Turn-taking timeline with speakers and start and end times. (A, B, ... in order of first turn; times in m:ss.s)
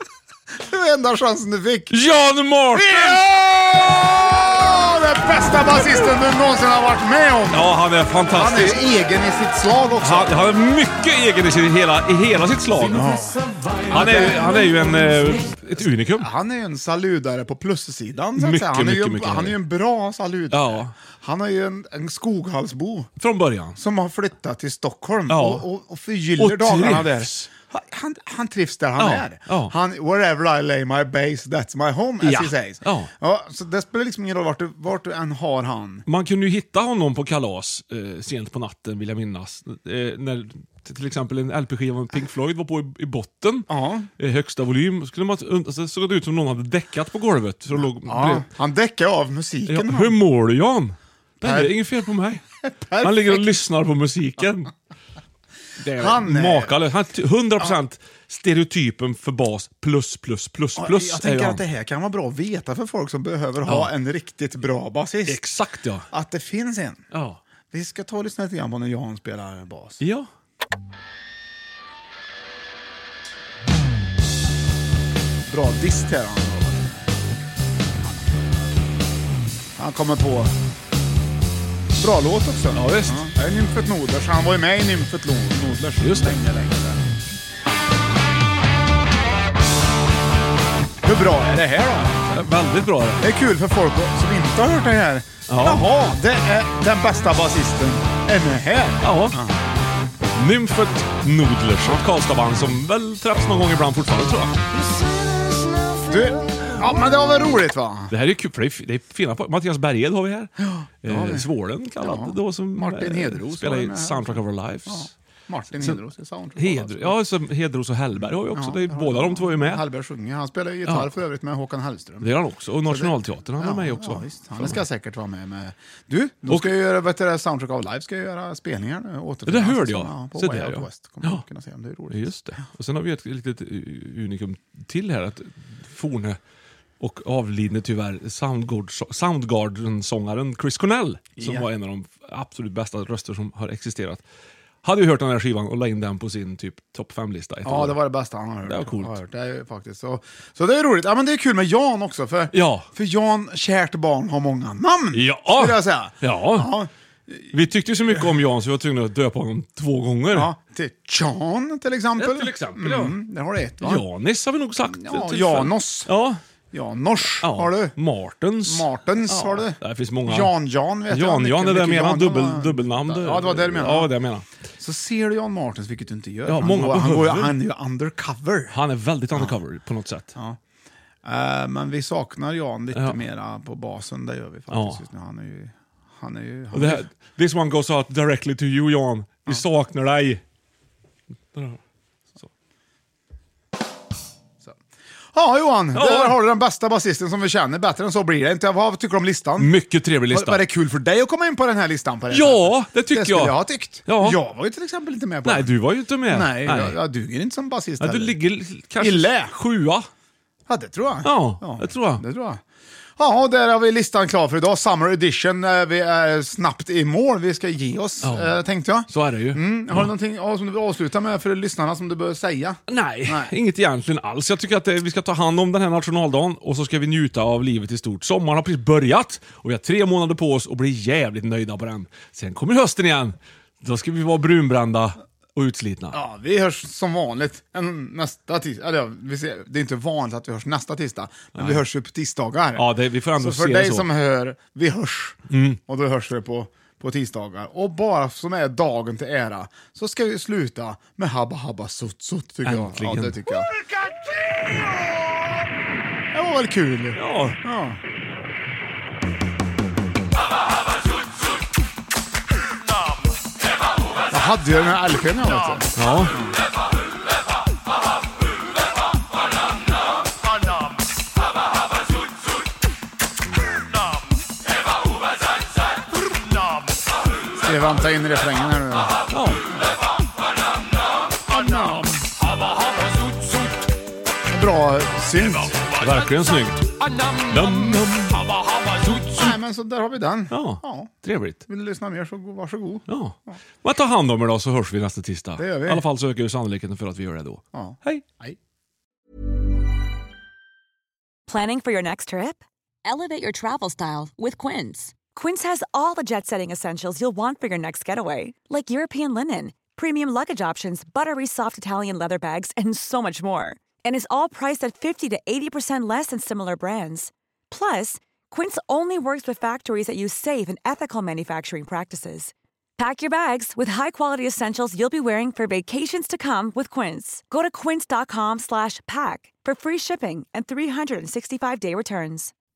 0:00.6-0:02.0 A
0:01.9-0:03.2 B
0:02.7-0:07.8 A
0:07.5-0:08.8 B
0:08.3-0:10.4 A
0:10.0-0:13.1 B
0:12.8-0:15.0 A
0:13.9-0:16.3 B
0:16.1-0:23.1 A
0:18.4-0:19.6 B
0:20.5-0:20.9 B
0:23.2-0:23.8 B
0:23.8-0:36.0 A
0:25.3-0:25.6 B
0:26.4-0:27.5 B
0:29.0-0:29.7 B
0:32.2-0:33.1 B
0:36.1-0:48.5 B
0:43.7-0:44.1 A
0:47.7-0:50.2 A
0:49.7-0:52.4 B
0:51.4-0:51.8 A
0:52.6-0:53.5 A
0:53.0-0:54.7 B
0:55.8-1:01.6 B
0:55.9-0:56.8 A
1:00.8-1:05.4 A
1:03.6-1:03.9 B
1:05.3-1:06.1 B
1:06.1-1:07.0 A
1:07.1-1:07.4 B
1:07.7-1:10.0 A
1:10.0-1:10.3 B
1:15.5-1:17.0 A
1:19.8-1:20.6 A
1:22.0-1:27.0 A
1:22.7-1:23.3 B
1:26.0-1:26.4 B
1:31.0-1:32.2 A
1:32.3-1:33.2 B
1:33.2-1:39.6 A
1:35.5-1:35.9 B
1:39.0-1:39.4 B
1:40.4-1:44.6 B
1:46.0-1:48.1 A
1:48.1-1:50.5 B
1:50.6-1:57.2 A
1:51.0-1:55.1 B
1:55.7-1:56.0 B
1:56.6-1:59.8 B
1:58.5-2:02.3 A
2:02.2-2:04.8 B
2:02.8-2:12.6 A
2:06.5-2:06.8 B
2:09.5-2:11.4 B
2:12.1-2:16.4 B
2:17.0-2:24.2 B
2:21.4-2:21.7 A
2:24.8-2:28.0 B
2:27.6-2:37.5 A
2:28.6-2:29.2 B
2:32.5-2:32.9 B
2:35.1-2:36.7 B
2:37.5-2:40.5 B
2:40.3-2:44.0 A
2:42.2-2:43.2 B
2:43.8-2:46.4 B
2:44.8-2:46.1 A
2:46.7-2:48.0 A
2:47.4-2:50.5 B
2:48.7-2:54.1 A
2:51.1-2:54.4 B
2:54.8-2:58.8 A
2:56.5-2:57.6 B
2:58.7-3:00.4 B
3:01.2-3:07.1 A
3:04.7-3:05.0 B
3:06.7-3:10.4 B
3:11.5-3:11.8 B
3:15.3-3:19.7 A
3:15.9-3:16.4 B
3:19.6-3:20.6 B
3:20.3-3:28.4 A
3:22.3-3:24.4 B
3:25.4-3:27.0 B
3:28.0-3:30.1 B
3:29.0-3:29.6 A
3:30.7-3:32.6 A
3:31.2-3:32.2 B
3:33.2-3:43.5 A
3:38.2-3:38.6 B
3:39.1-3:40.1 B
3:42.9-3:56.2 B
3:56.1-4:13.8 A
4:01.6-4:01.8 B
4:02.8-4:04.1 B
4:05.5-4:05.8 B
4:12.6-4:13.4 B
4:14.5-4:14.9 A
4:16.3-4:18.0 A
4:17.2-4:17.6 B
4:24.3-4:26.6 A
4:26.0-4:26.4 B
4:37.6-4:39.2 A
4:39.3-4:39.6 B
4:41.5-4:42.2 A
4:44.5-4:45.8 A
4:45.9-4:49.5 B
4:49.1-4:51.1 A
4:50.5-4:51.6 B
4:51.6-4:53.6 A
4:53.1-4:58.3 B
4:55.6-4:56.0 A
4:57.7-4:58.6 A
5:01.5-5:32.5 C